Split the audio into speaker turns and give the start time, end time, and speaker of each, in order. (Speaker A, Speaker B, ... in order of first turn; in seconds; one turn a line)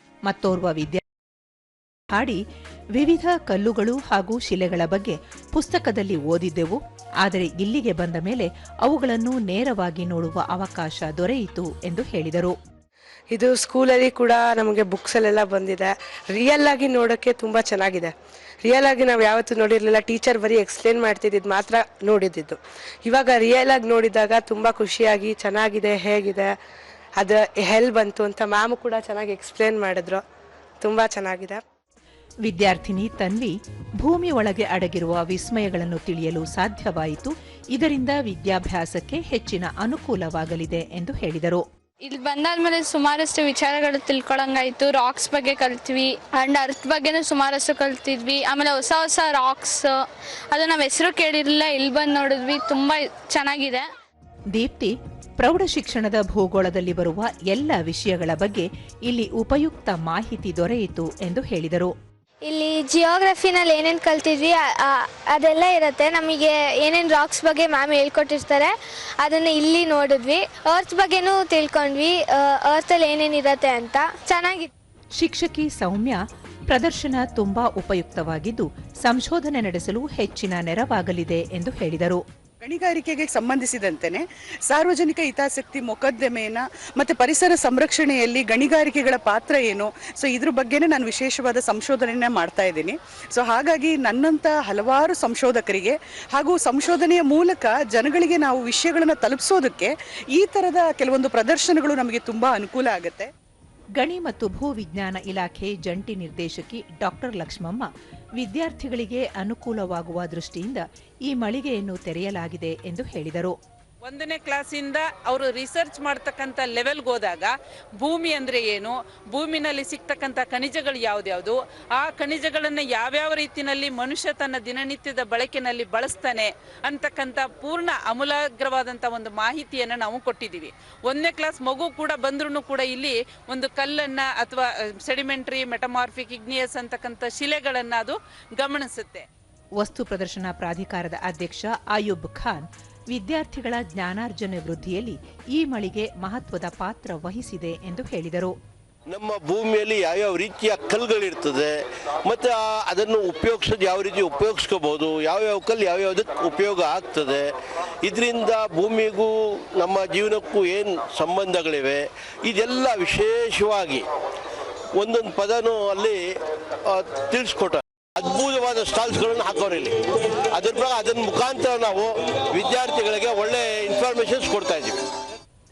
Speaker A: 0.3-1.0
Speaker A: 2.1-2.4
Speaker A: 3.0-12.6
Speaker B: 13.3-18.1
Speaker B: 18.6-26.5
Speaker B: 27.2-30.2
Speaker B: 30.8-31.6
Speaker A: 32.5-41.6
Speaker C: 42.0-53.9
Speaker A: 54.5-61.9
Speaker D: 62.5-74.7
Speaker A: 75.2-82.2
Speaker E: 82.6-103.3
Speaker A: 104.0-113.6
Speaker F: 114.0-139.3
Speaker A: 139.8-148.6
Speaker G: 149.1-151.7
Speaker G: 152.3-157.5
Speaker G: 158.0-164.0
Speaker G: 165.0-166.2
Speaker G: 166.9-169.9
Speaker G: 170.6-175.0